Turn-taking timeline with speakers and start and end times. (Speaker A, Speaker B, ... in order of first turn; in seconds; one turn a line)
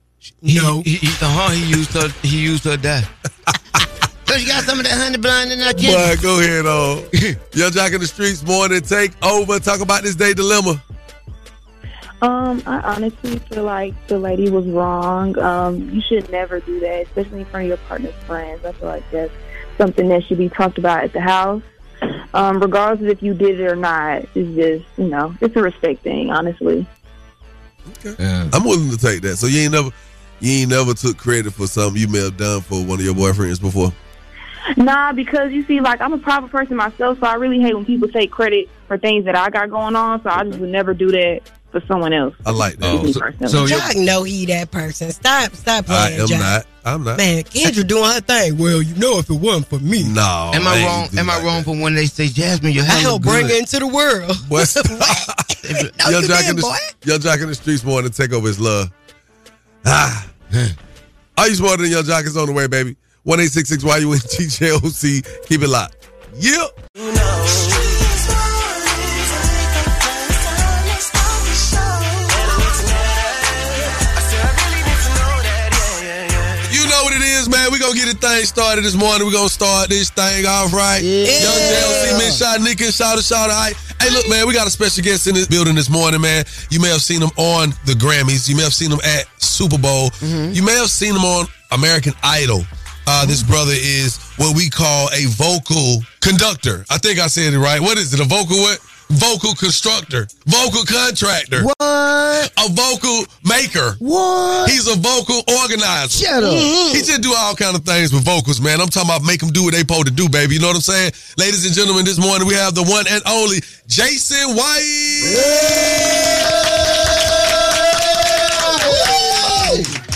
Speaker A: 0.4-3.1
Speaker B: 0.5-0.8
Speaker C: 3.5-3.9
Speaker A: 4.3-6.2
Speaker C: 5.8-10.8
Speaker D: 12.2-21.7
Speaker D: 22.3-26.9
Speaker C: 27.9-34.0
Speaker A: 28.2-28.5
Speaker D: 34.8-43.8
Speaker C: 42.5-43.2
Speaker A: 42.8-43.9
Speaker B: 43.6-46.5
Speaker C: 45.9-47.2
Speaker B: 47.2-50.1
Speaker C: 50.0-51.7
Speaker A: 50.5-53.6
Speaker B: 52.9-55.2
Speaker C: 54.4-55.5
Speaker A: 55.6-56.0
Speaker B: 56.0-56.9
Speaker C: 56.0-58.9
Speaker C: 59.8-60.3
Speaker A: 60.5-60.8
Speaker C: 61.4-66.7
Speaker E: 67.1-68.2
Speaker E: 68.8-69.9
Speaker E: 72.3-76.5
Speaker C: 76.7-101.7
Speaker A: 81.0-82.4
Speaker B: 81.2-82.2
Speaker A: 90.2-90.6
Speaker A: 101.5-102.5
Speaker C: 102.5-104.0
Speaker A: 104.0-104.8
Speaker C: 104.7-106.3
Speaker A: 106.1-106.7
Speaker B: 106.4-107.1
Speaker C: 106.9-116.5
Speaker A: 115.2-119.9